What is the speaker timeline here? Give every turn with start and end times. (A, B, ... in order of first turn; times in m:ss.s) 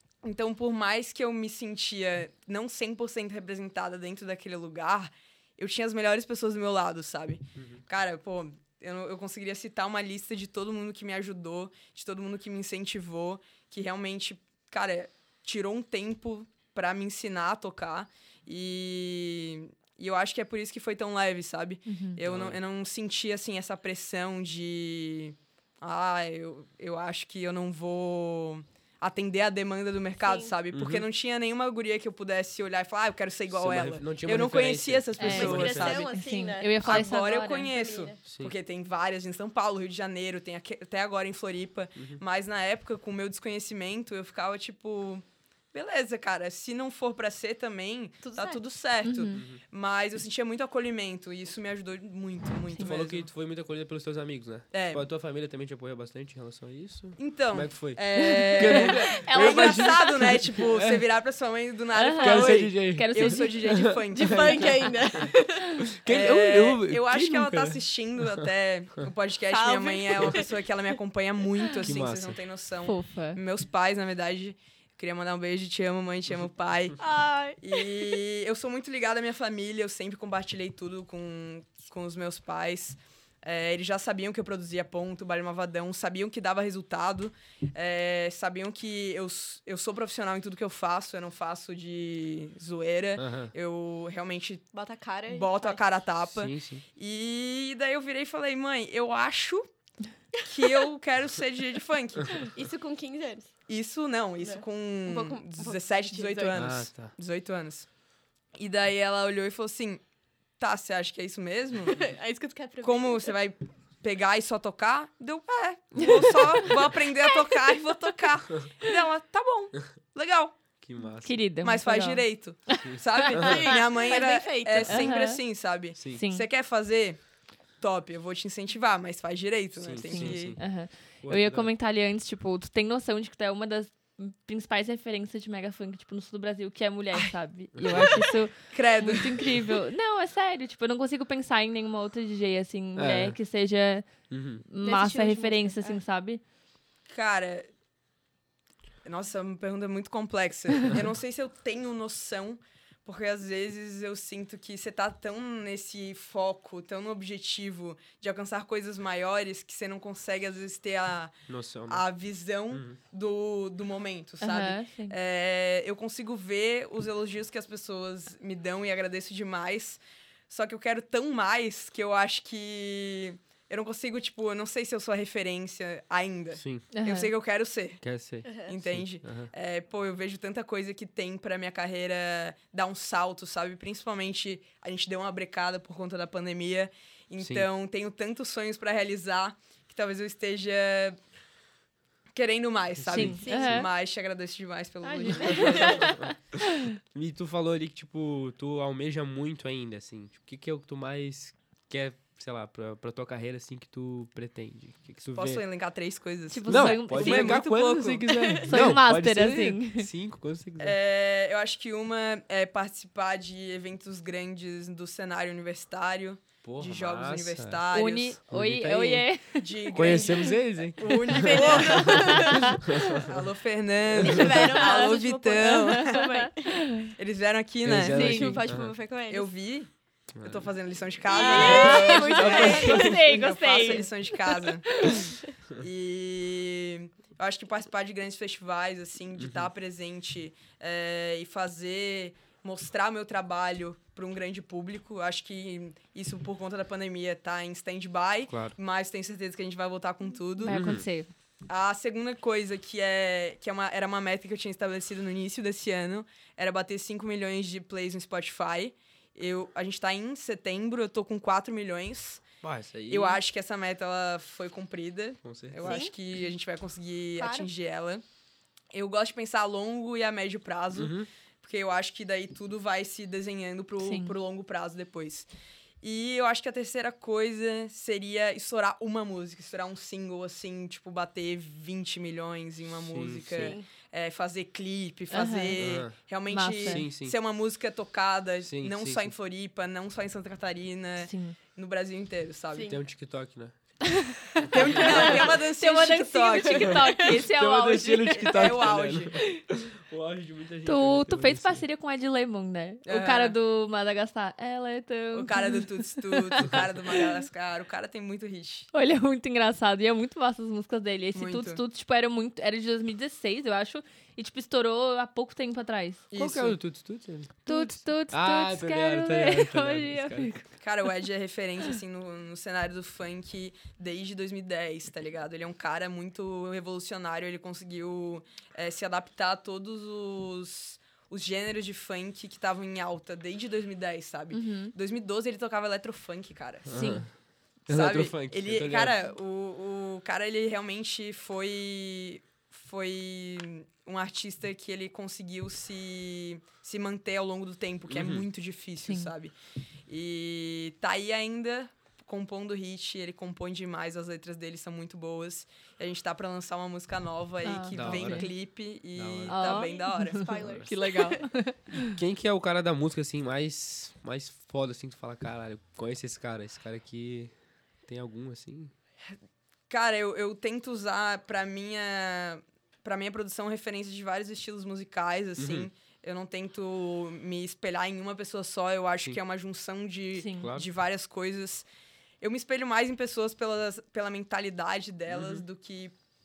0:00.2-0:36.2 A
0:07.6-0:07.8 B
0:21.9-0:22.2 C
0:22.2-0:22.6 B
0:30.2-0:30.6 D
0:30.7-0:31.1 B
0:33.5-0:36.0 B
0:35.2-0:38.2 D
0:35.2-0:37.8 C
0:36.8-0:53.3 A
0:38.3-0:38.5 B
0:48.2-0:48.6 D
0:49.0-0:49.4 C
0:49.3-0:49.6 B
0:52.8-0:53.0 C
0:52.8-1:01.0 B
0:54.7-0:55.0 A
0:57.2-1:04.8 A
0:58.2-1:00.2 C
1:02.0-1:03.6 C
1:02.2-1:05.3 B
1:04.1-1:05.9 D
1:05.8-1:08.5 B
1:06.1-1:17.0 A
1:09.5-1:11.0 D
1:11.6-1:11.8 D
1:11.8-1:12.4 B
1:12.8-1:13.4 C
1:17.0-1:18.2 D
1:17.6-1:34.6 A
1:33.2-1:33.5 B
1:34.7-1:35.8 D
1:35.3-1:39.6 A
1:36.3-1:36.8 B
1:40.4-1:42.5 A
1:42.4-1:43.6 D
1:43.7-1:47.9 A
1:44.4-1:46.6 D
1:46.6-1:47.1 B
1:48.5-1:50.0 A
1:50.6-1:52.1 A
1:51.9-1:53.3 D
1:52.8-2:00.6 A
2:00.8-2:01.4 B
2:01.2-2:02.9 C
2:01.6-2:07.2 A
2:02.8-2:03.7 B
2:03.3-2:05.2 D
2:04.9-2:05.4 C
2:06.1-2:06.5 C
2:07.8-2:10.6 A
2:09.8-2:11.7 B
2:10.0-2:24.1 C
2:17.8-2:18.3 B
2:18.7-2:19.5 A
2:23.0-2:23.4 B
2:24.3-2:24.6 B
2:24.6-2:26.4 C
2:24.8-2:26.0 D
2:27.1-2:27.7 A
2:29.0-2:41.4 A
2:41.5-2:42.0 B
2:41.9-2:58.0 A
2:42.7-2:43.0 B
2:44.4-2:45.2 C
2:56.5-2:56.9 B
2:56.9-2:57.3 C
2:58.0-2:59.5 B
2:58.4-2:58.7 D
2:58.6-3:11.2 A
3:07.4-3:07.7 B
3:12.3-3:16.2 A
3:13.0-3:13.4 B
3:13.1-3:13.9 C
3:13.2-3:13.9 D
3:15.1-3:16.1 D
3:15.2-3:17.0 C
3:15.5-3:16.4 B
3:16.9-3:25.6 B
3:25.3-3:28.4 A
3:26.5-3:27.7 C
3:26.7-3:31.0 B
3:28.3-3:29.0 D
3:28.6-3:30.1 C
3:30.8-3:38.4 A
3:36.6-3:37.8 B
3:37.9-3:40.5 C
3:38.5-3:39.2 B
3:39.6-3:46.2 A
3:39.9-3:43.3 B
3:41.1-3:42.8 D
3:41.9-3:43.2 C
3:44.1-3:46.8 D
3:44.2-3:44.7 B
3:44.7-3:47.1 C
3:47.1-3:48.5 A
3:47.8-3:49.0 B
3:48.0-3:48.5 C
3:48.1-3:49.5 D
3:49.3-3:49.9 A
3:50.4-3:50.7 B
3:50.4-4:11.0 A
3:51.3-3:53.4 D
3:51.3-3:55.4 C
3:51.5-3:53.1 B
3:59.4-3:59.7 B
4:08.5-4:08.8 B
4:10.6-4:11.3 C
4:10.7-4:11.0 B
4:11.7-4:22.4 A
4:22.6-4:23.4 B
4:23.1-4:28.2 A
4:25.4-4:26.0 B
4:25.8-4:26.1 D
4:27.4-4:27.7 D
4:28.9-4:35.5 A
4:30.9-4:31.3 B
4:34.0-4:34.4 C
4:36.0-4:53.0 A
4:43.1-4:43.8 B
4:43.5-4:43.9 D
4:45.3-4:45.8 C
4:45.8-4:46.1 B
4:46.5-4:47.1 C
4:46.8-4:47.4 B
4:48.6-4:49.3 B
4:51.2-4:51.6 C
4:52.7-4:53.0 D
4:52.9-4:54.2 B
4:54.1-4:58.8 C
4:54.6-4:57.5 A
4:55.0-4:55.6 D
4:56.8-4:57.2 D
4:57.3-5:01.8 B
4:58.3-4:59.4 A
5:00.8-5:07.3 C
5:03.1-5:03.6 A
5:05.3-5:08.9 A
5:08.9-5:16.2 C
5:11.3-5:11.8 A
5:16.3-5:16.8 A
5:16.3-5:20.5 B
5:17.7-5:20.6 C
5:20.8-5:37.0 A
5:34.5-5:35.0 C
5:36.9-5:37.3 B
5:36.9-5:37.3 C
5:37.9-5:49.5 A
5:37.9-5:39.2 B
5:48.1-5:48.5 B
5:49.0-5:49.3 C
5:50.1-6:00.9 A
5:57.6-5:58.5 C
5:57.9-5:58.5 B
5:59.2-5:59.6 B
5:59.5-6:02.2 C
5:59.7-6:01.4 D
6:02.2-6:07.5 B
6:08.1-6:08.9 B
6:09.9-6:21.9 A
6:15.6-6:15.9 B
6:20.4-6:20.7 C
6:20.6-6:20.9 B
6:22.4-6:26.2 A
6:25.3-6:25.6 B